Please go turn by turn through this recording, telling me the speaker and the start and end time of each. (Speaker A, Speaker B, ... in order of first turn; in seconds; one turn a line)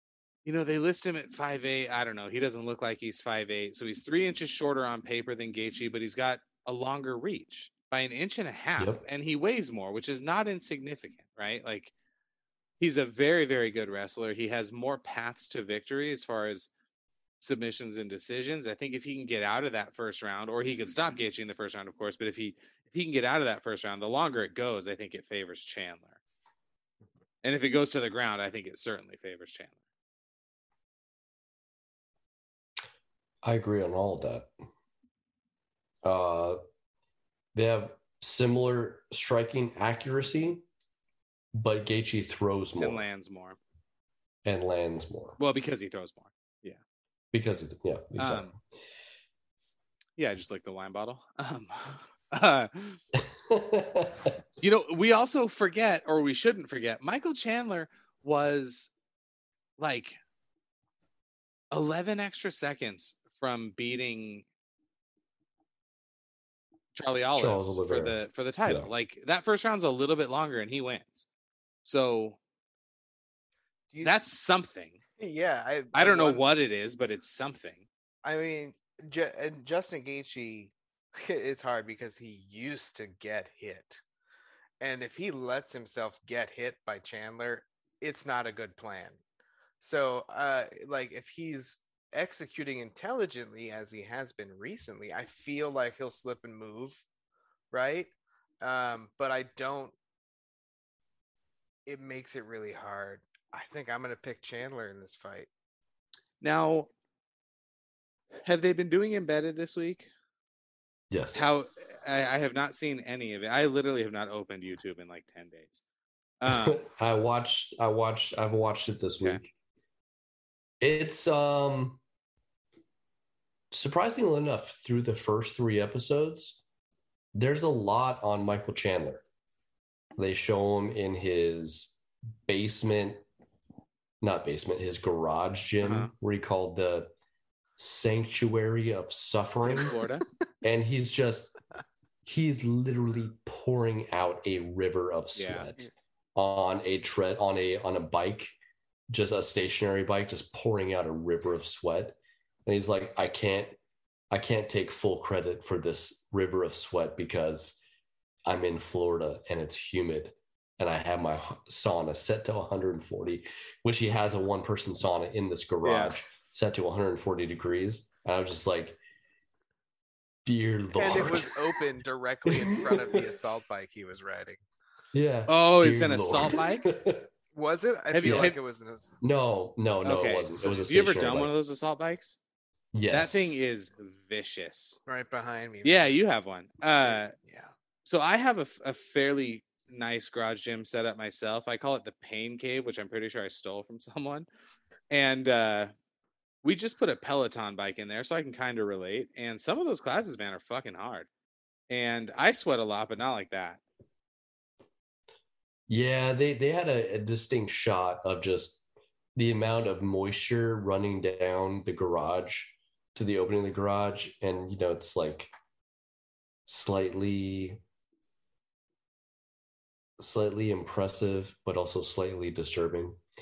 Speaker A: 0.5-11.9
Speaker B: 8.8-9.0
Speaker A: 12.8-16.7
Speaker A: 17.4-26.2
Speaker A: 27.4-29.8
Speaker B: 33.4-34.5
Speaker B: 36.0-36.6
Speaker B: 37.5-40.6
Speaker B: 41.5-43.0
Speaker A: 42.8-43.6
Speaker B: 44.4-45.4
Speaker A: 45.4-46.8
Speaker B: 47.3-48.6
Speaker A: 48.2-48.5
Speaker A: 50.2-53.0
Speaker B: 53.1-54.4
Speaker A: 54.6-58.9
Speaker A: 59.8-60.2
Speaker A: 61.7-64.4
Speaker A: 66.9-71.3
Speaker B: 67.4-68.9
Speaker A: 71.8-72.4
Speaker A: 74.0-75.0
Speaker C: 75.2-76.4
Speaker A: 75.9-77.8
Speaker C: 78.2-84.0
Speaker C: 84.8-89.2
Speaker C: 89.8-97.0
Speaker C: 97.7-99.9
Speaker C: 101.8-105.5
Speaker A: 106.4-106.9
Speaker A: 108.4-110.1
Speaker B: 111.1-111.6
Speaker A: 111.3-115.8
Speaker A: 116.4-116.8
Speaker B: 116.5-119.4
Speaker B: 120.8-122.0
Speaker B: 123.7-126.6
Speaker B: 127.3-129.2
Speaker B: 130.2-133.2
Speaker B: 134.2-137.1
Speaker A: 135.8-136.1
Speaker B: 137.8-139.9
Speaker A: 139.7-140.2
Speaker B: 140.6-141.5
Speaker B: 142.2-148.5
Speaker A: 145.3-145.7
Speaker B: 149.1-153.8
Speaker B: 154.3-157.8
Speaker B: 158.4-169.0
Speaker A: 165.8-166.1
Speaker B: 170.4-171.6
Speaker C: 170.9-174.6
Speaker B: 172.5-173.2
Speaker B: 175.1-177.3
Speaker A: 175.5-176.9
Speaker C: 177.5-179.1
Speaker A: 178.1-178.6
Speaker B: 178.2-178.5
Speaker B: 179.2-181.5
Speaker A: 180.0-182.4
Speaker B: 182.9-183.6
Speaker A: 183.1-185.0
Speaker C: 185.1-186.1
Speaker A: 185.8-187.3
Speaker C: 187.0-187.7
Speaker A: 188.0-194.4
Speaker A: 195.1-195.9
Speaker A: 196.6-201.3
Speaker A: 201.9-203.8
Speaker B: 205.9-208.8
Speaker B: 209.3-215.5
Speaker B: 216.7-217.8
Speaker B: 220.2-223.2